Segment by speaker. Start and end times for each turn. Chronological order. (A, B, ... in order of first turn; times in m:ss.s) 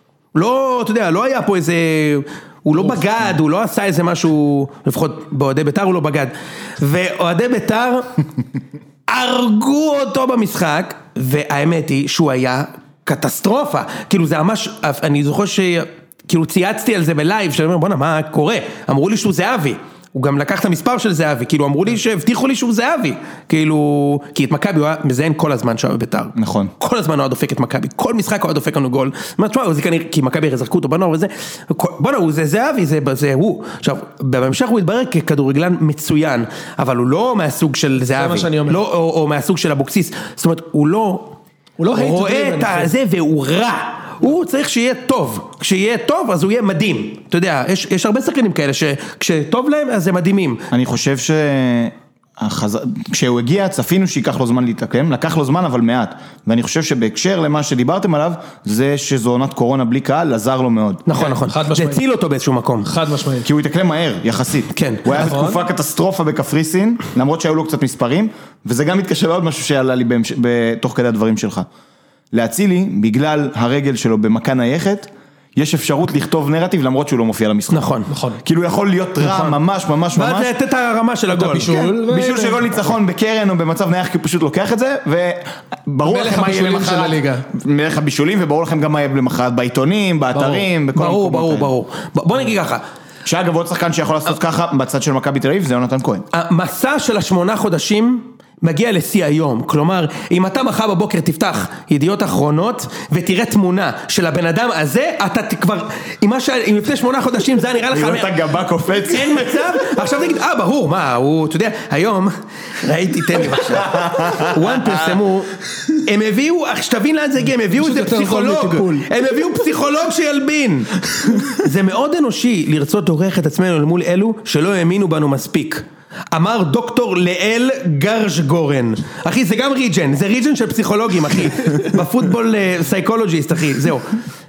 0:00.3-0:08.2 A
0:09.1-0:41.4 A
0:26.4-0:26.7 B
0:38.0-0:38.8 C
0:41.8-0:42.9 C
0:41.9-0:50.6 A
0:50.7-1:01.0 B
1:01.1-1:02.9 A
1:01.2-1:02.0 C
1:02.8-1:03.5 C
1:03.4-1:11.7 B
1:04.7-1:05.2 A
1:05.1-1:05.6 C
1:12.3-1:17.9 B
1:17.7-1:18.1 A
1:18.1-1:18.4 C
1:18.4-1:20.5 B
1:19.2-1:19.6 A
1:20.1-1:21.7 A
1:21.3-1:22.7 C
1:21.6-1:31.7 B
1:26.0-1:27.5 C
1:30.4-1:32.8 A
1:33.3-1:36.2 B
1:36.3-1:48.3 A
1:47.9-1:49.8 B
1:49.0-1:55.5 A
1:53.6-1:55.2 B
1:56.0-2:14.2 A
1:57.6-1:59.4 C